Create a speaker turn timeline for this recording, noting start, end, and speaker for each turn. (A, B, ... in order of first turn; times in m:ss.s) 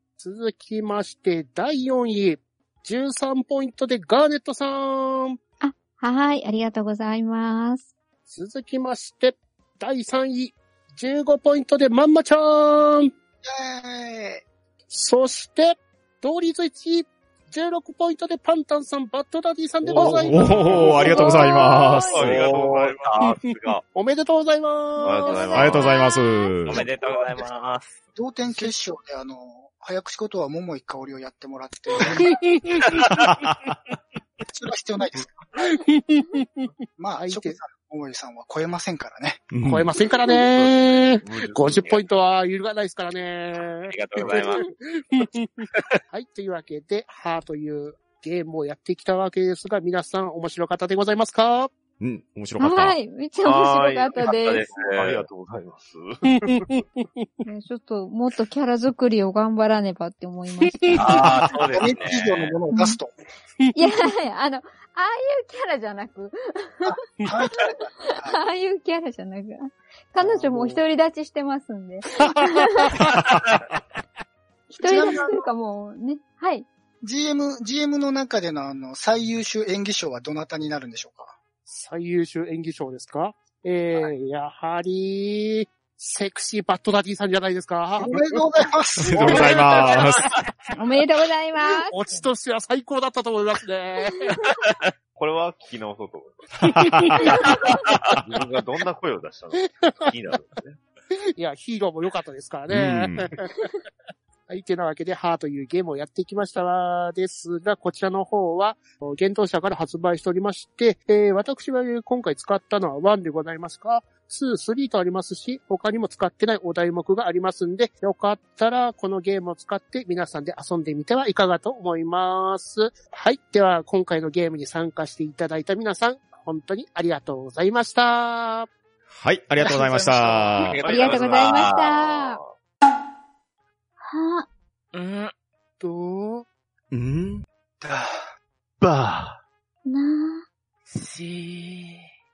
0:00.2-0:05.4 A
0:05.6-0:07.9 B
0:08.3-0:13.1 A
0:13.4-0:14.4 C
0:14.9-0:21.4 A
0:19.8-0:21.3 D
0:20.0-0:22.4 E
0:20.8-0:22.1 B
0:21.7-0:23.8 F
0:22.1-0:23.5 D
0:22.5-0:23.2 A
0:23.9-0:25.6 A
0:25.0-0:25.9 D
0:25.0-0:26.5 B
0:25.5-0:25.8 F
0:25.5-0:26.8 E
0:26.6-0:28.0 F
0:26.7-0:27.4 D
0:28.1-0:32.3 C
0:32.2-0:32.8 A
0:33.2-0:33.5 E
0:34.5-0:35.3 C
0:35.6-0:37.6 A
0:37.0-0:39.5 C
0:39.5-0:39.9 E
0:39.6-0:51.7 A
0:40.3-0:41.8 D
0:41.7-0:42.0 F
0:43.7-0:44.6 F
0:52.0-0:53.0 E
0:52.6-0:54.6 B
0:53.4-0:56.8 D
0:54.3-0:55.2 F
0:56.3-0:57.3 A
0:57.4-1:01.0 B
1:00.8-1:01.2 A
1:00.9-1:02.6 F
1:01.1-1:03.2 C
1:02.7-1:03.0 B
1:03.7-1:06.9 B
1:06.8-1:08.4 C
1:07.6-1:13.0 B
1:10.2-1:10.8 A
1:12.2-1:13.8 A
1:14.7-1:16.7 B
1:14.8-1:15.4 C
1:17.0-1:21.4 C
1:21.7-1:28.2 A
1:28.0-1:29.6 C
1:29.0-1:30.3 E
1:29.2-1:30.0 A
1:29.2-1:29.9 D
1:30.7-1:31.9 B
1:31.8-1:34.3 A
1:35.1-1:36.7 D
1:36.7-1:37.6 A
1:36.7-1:37.2 E
1:38.2-1:40.8 D
1:41.4-1:43.7 A
1:42.7-1:43.3 E
1:44.5-2:08.7 A
2:09.1-2:10.8 E
2:09.6-2:10.5 C
2:10.6-2:11.9 F
2:10.8-2:12.5 D
2:10.8-2:12.4 B
2:14.0-2:14.5 B
2:14.9-2:15.3 F
2:15.8-2:16.4 A
2:16.9-2:17.4 E
2:17.8-2:18.3 C
2:18.8-2:19.4 D
2:19.8-2:20.4 B
2:20.9-2:22.1 F